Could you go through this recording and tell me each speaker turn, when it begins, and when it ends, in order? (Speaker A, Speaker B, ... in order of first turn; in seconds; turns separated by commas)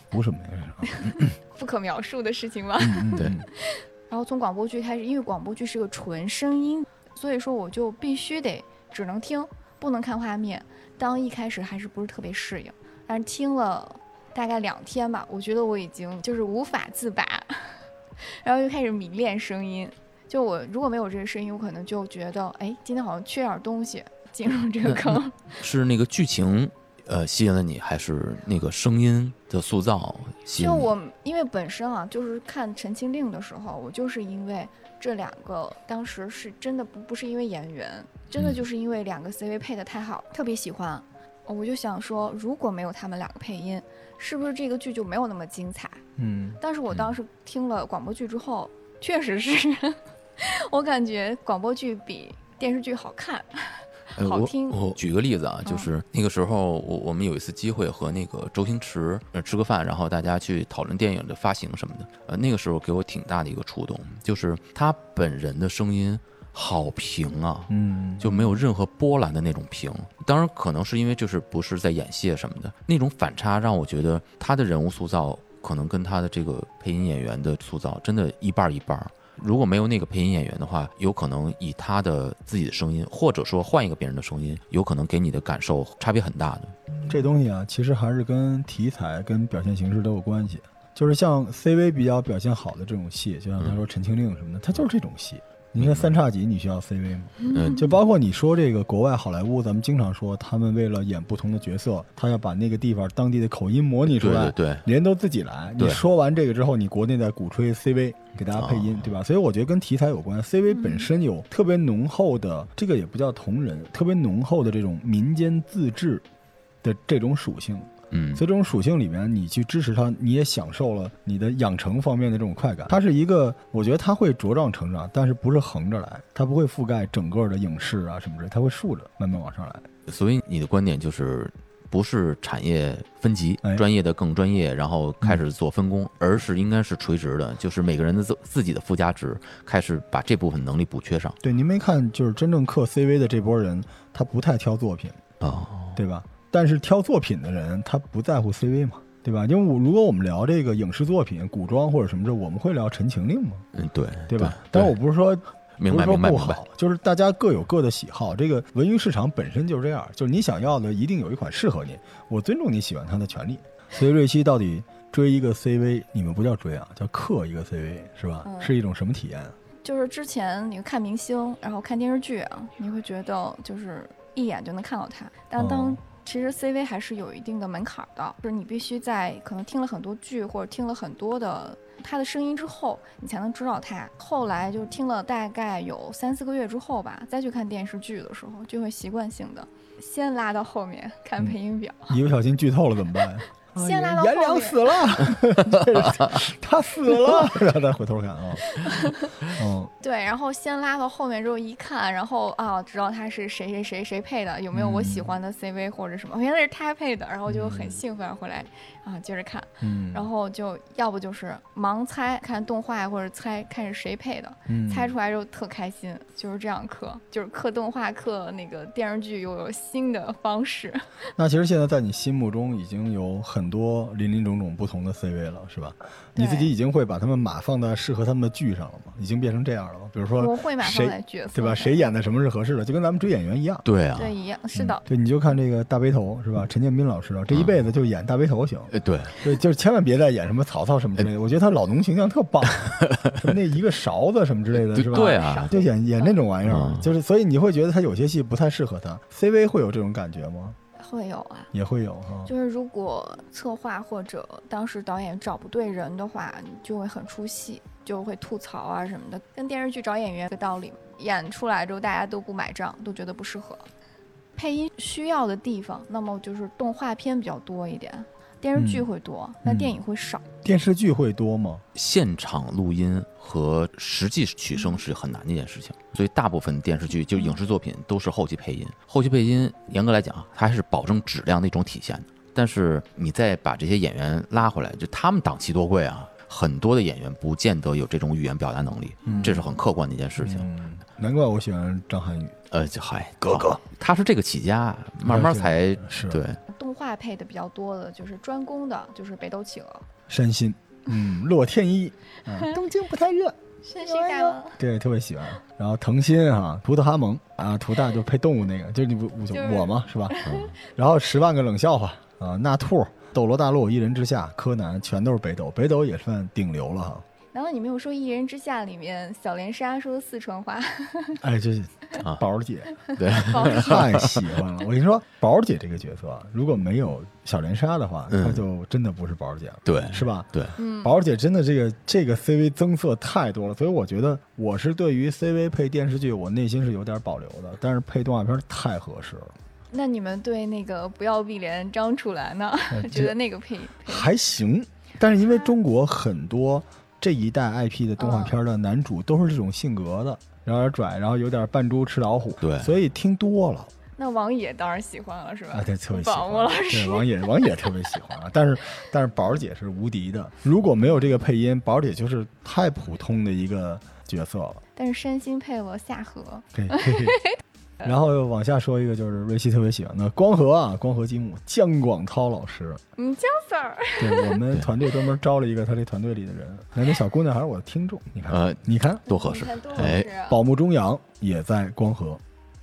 Speaker A: 0.1-1.3, Speaker B: 0.8-25.5, Speaker A: 2.8-3.5, Speaker C: 24.9-30.9, Speaker B: 30.6-46.0, Speaker C: 38.4-38.6, Speaker A: 46.2-46.6, Speaker B: 46.6-54.8, Speaker C: 54.2-86.7, Speaker A: 67.7-68.5, Speaker A: 87.1-116.2, Speaker C: 95.8-96.2, Speaker B: 97.4-97.9, Speaker C: 97.5-97.9, Speaker C: 104.1-104.8, Speaker C: 105.8-106.0, Speaker C: 108.5-109.1, Speaker B: 110.7-111.1, Speaker A: 116.8-129.9, Speaker C: 118.1-118.4, Speaker C: 130.1-141.4, Speaker A: 141.4-145.2, Speaker C: 145.4-146.0, Speaker A: 145.9-153.6, Speaker C: 153.7-154.9, Speaker A: 154.3-169.6, Speaker C: 155.8-156.6, Speaker B: 168.4-168.7, Speaker B: 169.8-192.2, Speaker A: 175.6-176.0, Speaker A: 192.1-198.8, Speaker B: 193.8-195.2, Speaker B: 198.7-199.4, Speaker A: 199.4-199.9, Speaker B: 200.0-221.0, Speaker A: 204.7-205.3, Speaker A: 207.5-208.0, Speaker A: 209.8-210.3, Speaker A: 214.7-215.1, Speaker A: 221.4-233.8, Speaker B: 226.3-226.7, Speaker B: 230.4-232.1, Speaker C: 233.8-234.3, Speaker B: 234.2-235.0, Speaker A: 234.8-250.8, Speaker C: 237.5-237.7, Speaker C: 238.9-239.4, Speaker C: 243.0-243.3, Speaker C: 244.8-245.8, Speaker B: 245.1-246.4, Speaker C: 246.6-247.1, Speaker B: 251.0-251.7, Speaker A: 251.7-252.5, Speaker B: 252.4-263.9, Speaker B: 264.6-270.4, Speaker A: 268.7-269.1, Speaker A: 269.6-269.9, Speaker A: 270.6-271.8, Speaker C: 271.9-290.7, Speaker A: 289.2-289.7, Speaker A: 290.4-292.6, Speaker C: 292.7-296.6, Speaker A: 293.4-293.8, Speaker A: 295.2-296.4, Speaker B: 296.7-300.1, Speaker A: 300.3-317.2, Speaker B: 303.8-304.8, Speaker B: 309.5-310.6, Speaker C: 310.4-310.7, Speaker B: 317.5-321.4, Speaker A: 321.4-339.5, Speaker B: 323.1-324.1, Speaker C: 323.1-324.5, Speaker C: 328.3-328.6, Speaker C: 329.9-330.7, Speaker B: 330.8-331.1, Speaker B: 339.9-344.3, Speaker A: 342.9-343.3, Speaker A: 344.0-353.9, Speaker B: 348.2-348.5, Speaker C: 352.6-352.9, Speaker B: 354.2-357.9, Speaker A: 355.7-364.8, Speaker B: 364.9-367.5, Speaker A: 366.7-367.4, Speaker A: 368.0-373.0, Speaker B: 373.2-374.6, Speaker A: 374.2-379.2, Speaker C: 378.5-380.3, Speaker B: 379.3-380.6, Speaker A: 380.0-382.4